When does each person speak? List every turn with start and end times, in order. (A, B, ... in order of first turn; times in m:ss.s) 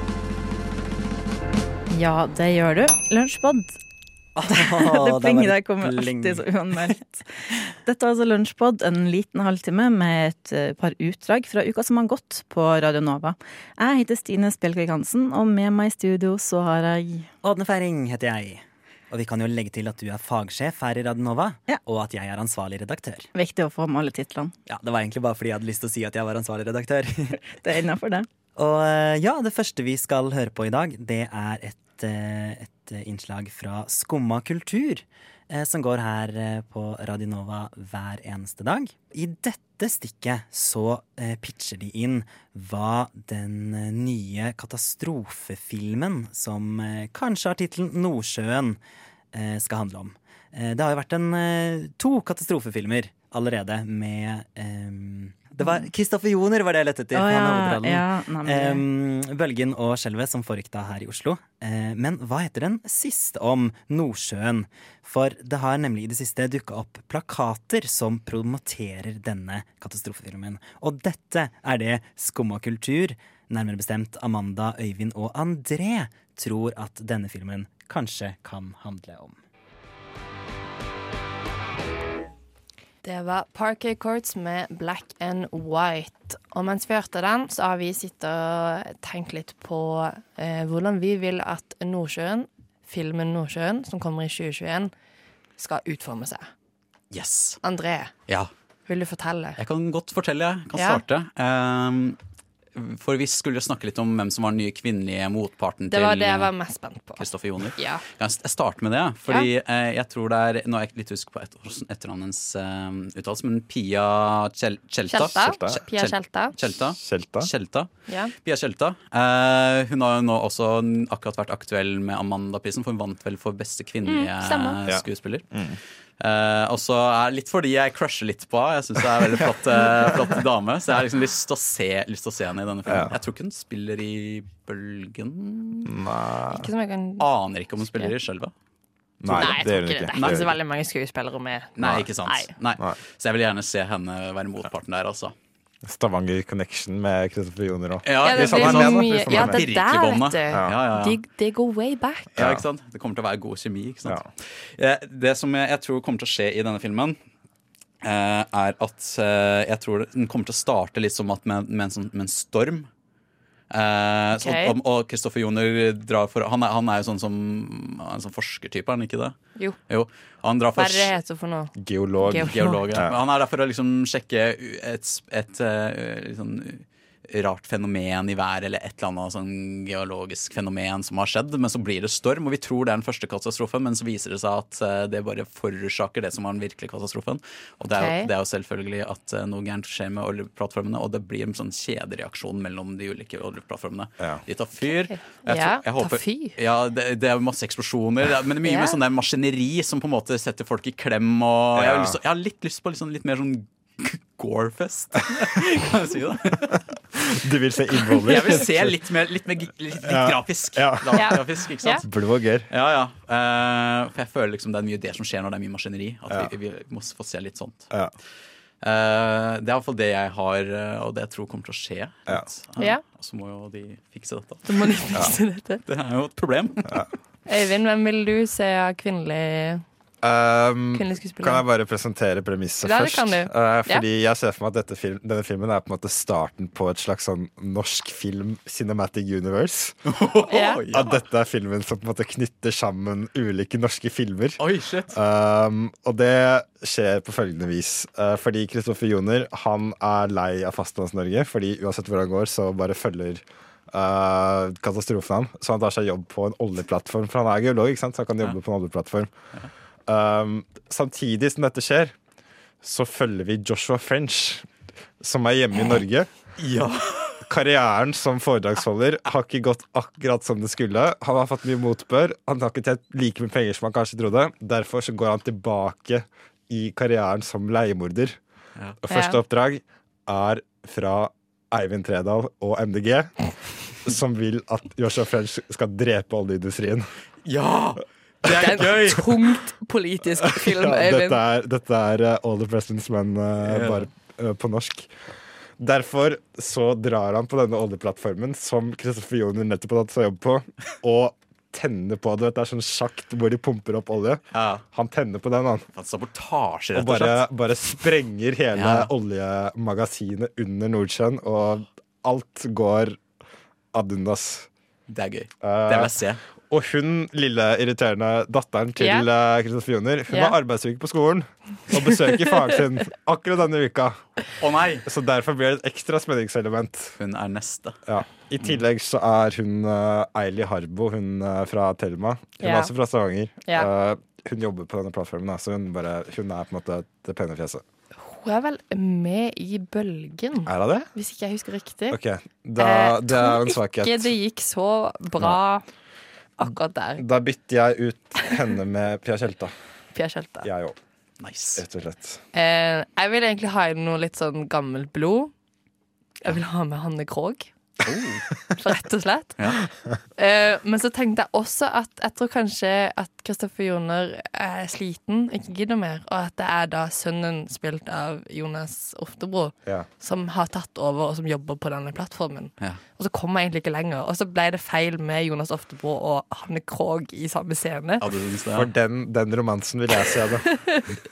0:01.9-0:03.8 A
0:04.3-0:07.0 B
0:04.4-0:07.2 A
0:07.8-0:17.3 A
0:17.4-0:23.3 B
0:23.3-0:24.5 A
0:24.7-0:27.4 B
0:27.6-0:28.3 A
0:28.5-0:48.8 B
0:49.3-1:19.4 B
0:57.1-0:58.8 A
1:23.0-1:34.9 C
1:35.6-1:36.5 C
1:37.1-1:37.6 D
1:37.6-1:38.1 C
1:38.9-1:39.6 C
1:39.6-1:42.2 D
1:40.7-1:41.0 C
1:42.7-1:46.5 D
1:45.9-1:48.0 C
1:47.2-2:15.9 D
1:55.1-1:56.6 C
1:55.2-1:55.8 E
1:56.7-1:57.5 E
1:58.1-1:58.3 C
2:04.0-2:04.8 C
2:04.9-2:05.8 E
2:12.9-2:13.1 E
2:15.9-2:16.7 E
2:16.5-2:17.2 C
2:17.2-2:18.5 D
2:19.2-2:20.5 E
2:19.3-2:22.5 C
2:19.3-2:20.5 D
2:21.8-2:25.3 D
2:21.8-2:22.1 E
2:25.8-2:29.6 E
2:28.0-2:31.2 D
2:28.2-2:32.3 C
2:30.5-2:30.7 E
2:32.3-2:37.2 D
2:32.4-2:32.6 E
2:38.0-2:42.9 D
2:43.7-2:51.2 D
2:44.3-2:44.7 C
2:50.7-2:52.9 C
2:51.8-2:53.2 E
2:52.5-3:27.3 D
3:07.9-3:08.3 C
3:14.2-3:14.4 E
3:14.8-3:16.6 C
3:18.6-3:19.0 C
3:21.7-3:22.2 E
3:27.3-3:29.0 E
3:28.0-3:37.9 D
3:30.0-3:31.4 E
3:31.1-3:32.0 C
3:32.0-3:32.7 E
3:38.8-3:45.3 D
3:42.8-3:43.0 C
3:44.6-3:45.8 C
3:45.8-3:46.9 D
3:47.5-3:49.8 C
3:50.2-4:00.0 E
3:50.9-3:51.6 C
3:52.8-3:54.0 C
4:00.1-4:01.2 D
4:00.5-4:00.8 C
4:00.9-4:19.3 E
4:04.6-4:05.2 D
4:20.1-4:22.1 E
4:22.8-4:24.7 E
4:25.2-4:26.3 E
4:26.6-4:27.4 D
4:27.4-4:38.4 E
4:39.0-4:47.1 E
4:39.1-4:39.4 C
4:47.4-4:49.4 D
4:48.6-4:51.4 C
4:50.4-4:55.1 E
4:53.6-4:54.1 D
4:55.8-5:05.8 E
5:04.5-5:04.8 D
5:05.9-5:08.1 D
5:06.9-5:13.2 E
5:08.7-5:09.1 D
5:13.9-5:14.7 E
5:15.1-5:16.4 D
5:15.6-5:24.3 E
5:19.0-5:19.3 C
5:20.3-5:20.6 C
5:24.6-5:25.1 D
5:25.0-5:27.1 E
5:27.2-5:28.8 D
5:28.0-5:37.8 E
5:32.6-5:32.9 C
5:33.6-5:33.9 C
5:38.2-5:42.2 C
5:40.6-5:41.0 E
5:42.1-5:44.3 E
5:42.8-5:45.8 C
5:46.6-5:47.2 C
5:47.2-5:49.7 E
5:50.1-5:50.7 C
5:50.6-5:51.0 E
5:51.4-5:51.8 D
5:51.8-5:52.4 E
5:52.5-5:55.5 C
5:56.4-5:57.7 C
5:58.0-5:58.4 D
5:58.8-5:59.8 C
6:00.3-6:18.3 C
6:18.2-6:18.9 D
6:18.7-6:20.6 E
6:20.7-6:21.0 C